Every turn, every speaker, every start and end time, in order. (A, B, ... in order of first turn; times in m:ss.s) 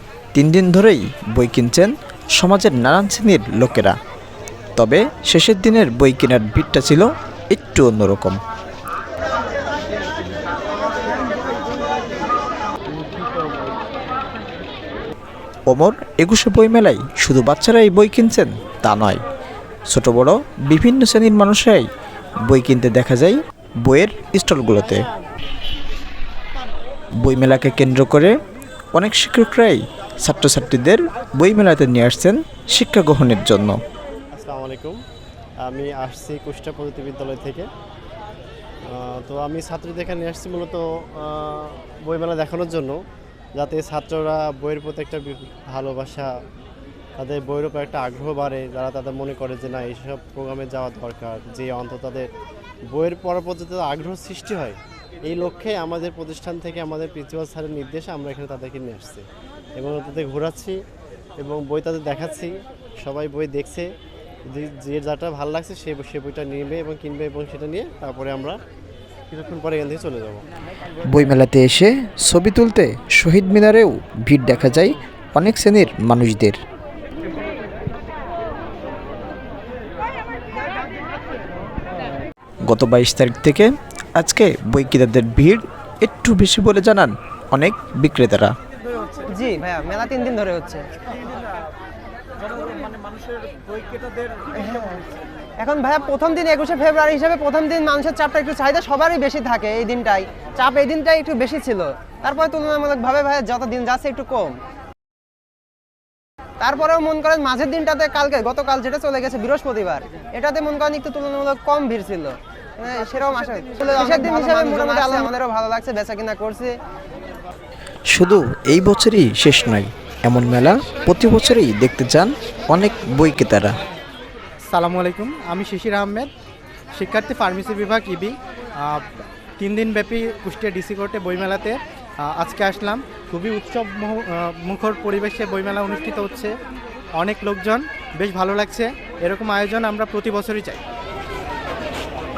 0:00.3-0:04.0 A
0:04.8-0:08.4 A
0:15.7-0:19.2 A
0:19.9-0:21.8 A
0:22.4-0:25.0 A
0:27.2-0:28.3 A
0:28.9-0:33.8 A
0:34.3-0:35.0 B
0:35.6-0:37.6 B
0:38.9-0:43.0 B
0:43.6-0:46.3 B
0:47.2-0:52.3 B
0:52.9-0:59.2 B
0:59.8-1:00.8 B
1:01.4-1:03.9 B
1:04.4-1:08.6 B
1:09.3-1:10.4 B
1:11.1-1:16.6 A
1:22.7-1:28.5 A
1:29.3-1:30.9 C
1:34.5-1:44.6 C
1:46.6-1:56.8 C
1:58.1-2:03.8 A
2:04.7-2:06.3 D
2:06.9-2:09.0 D
2:09.6-2:16.5 D
2:17.2-2:20.8 D